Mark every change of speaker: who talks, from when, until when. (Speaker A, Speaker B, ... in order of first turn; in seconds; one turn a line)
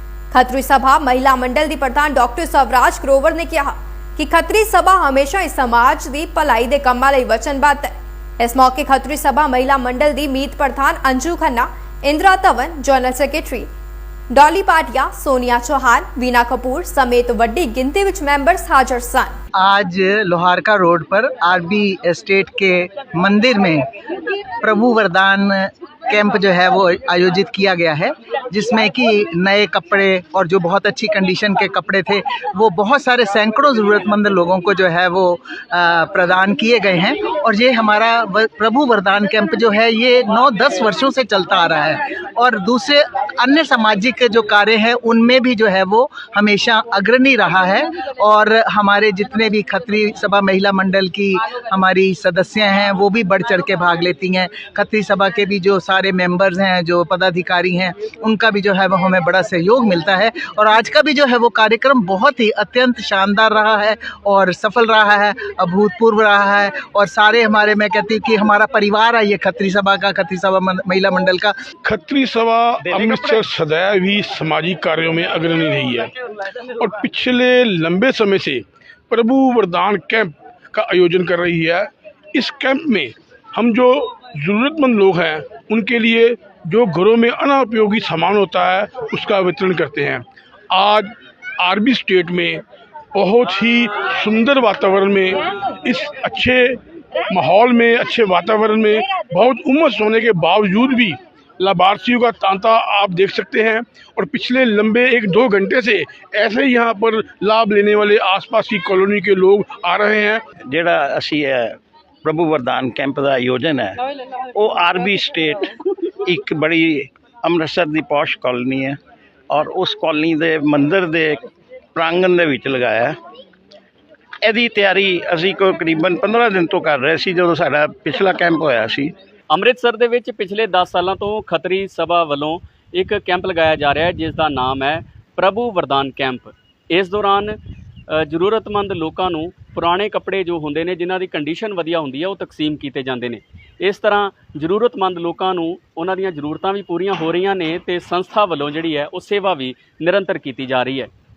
Speaker A: 0.3-13.7
Speaker A: 14.3-19.4
Speaker B: 19.6-23.8
Speaker B: 24.6-71.5
Speaker C: 71.8-76.1
Speaker D: 72.8-73.5
Speaker C: 76.8-92.6
Speaker C: 93.1-96.8
Speaker C: 97.3-110.4
Speaker D: 110.7-114.0
Speaker D: 114.5-119.0
Speaker D: 119.5-121.4
Speaker D: 121.9-123.2
Speaker D: 124.4-129.1
Speaker E: 129.5-137.6
Speaker E: 138.1-151.1